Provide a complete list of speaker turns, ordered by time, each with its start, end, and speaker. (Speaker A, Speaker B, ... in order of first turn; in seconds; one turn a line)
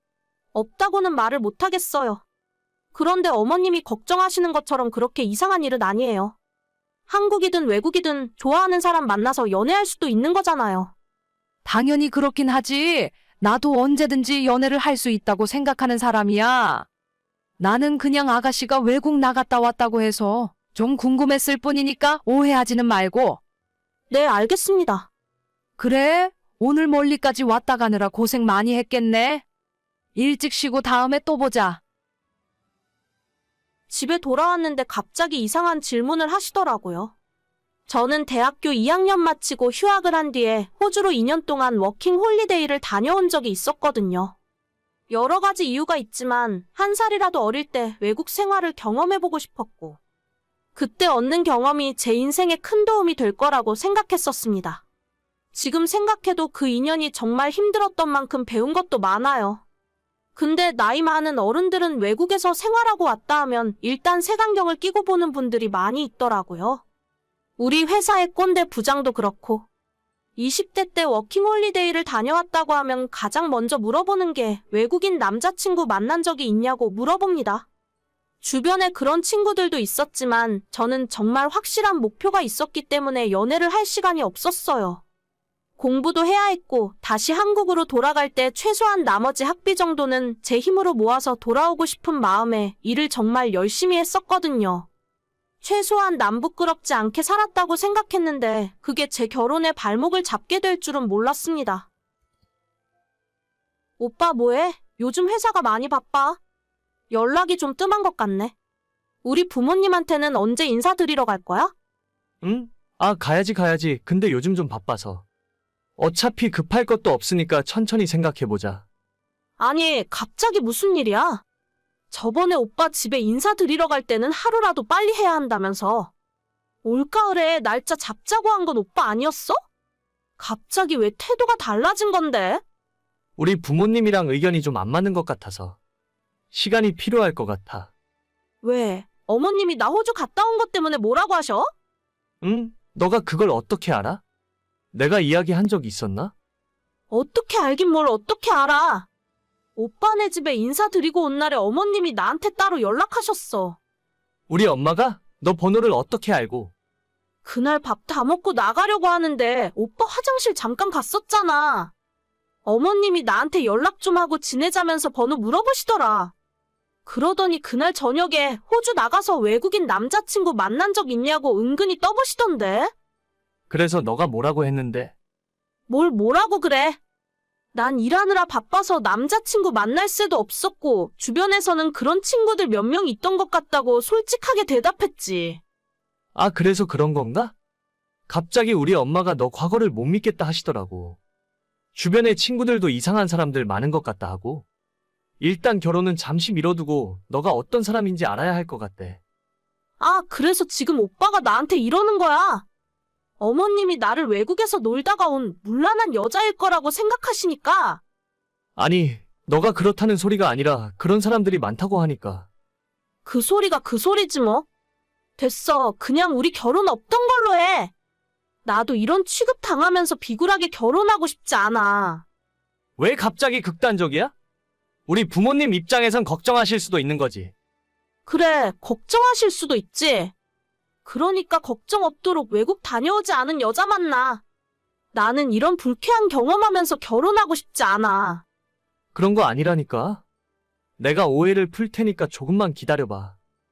Speaker A: 0.5-2.2
Speaker A: 2.9-6.3
Speaker A: 7.1-10.9
Speaker B: 11.6-16.9
Speaker B: 17.6-23.4
Speaker A: 24.1-25.1
Speaker B: 25.8-29.4
Speaker B: 30.1-31.8
Speaker A: 33.9-37.1
Speaker A: 37.9-44.3
Speaker A: 45.1-50.0
Speaker A: 50.7-54.8
Speaker A: 55.5-59.6
Speaker A: 60.4-66.8
Speaker A: 67.6-69.7
Speaker A: 70.3-77.7
Speaker A: 78.4-85.0
Speaker A: 85.8-94.9
Speaker A: 95.6-101.9
Speaker A: 104.0-106.4
Speaker A: 107.1-108.5
Speaker A: 109.2-111.7
Speaker C: 112.4-115.2
Speaker C: 116.0-118.8
Speaker A: 119.6-121.4
Speaker A: 122.1-126.1
Speaker A: 126.8-129.6
Speaker A: 130.4-132.6
Speaker C: 133.4-135.8
Speaker C: 136.5-137.9
Speaker A: 138.6-141.7
Speaker C: 142.4-144.2
Speaker C: 144.9-146.3
Speaker A: 147.1-149.1
Speaker A: 149.8-153.8
Speaker C: 154.5-156.7
Speaker A: 157.4-161.9
Speaker A: 162.6-166.3
Speaker A: 167.1-172.9
Speaker C: 173.7-175.1
Speaker A: 175.9-177.0
Speaker A: 177.7-185.6
Speaker C: 186.3-187.5
Speaker C: 188.3-191.2
Speaker C: 191.9-194.7
Speaker C: 195.4-199.2
Speaker A: 200.0-202.6
Speaker A: 203.4-208.0
Speaker C: 208.8-212.5
Speaker A: 213.2-214.7
Speaker A: 215.4-217.9
Speaker A: 218.6-222.2
Speaker C: 223.0-224.3
Speaker C: 225.1-227.5
Speaker A: 228.2-230.3
Speaker A: 231.0-234.4
Speaker A: 235.1-238.4
Speaker C: 239.1-240.2
Speaker C: 241.0-243.3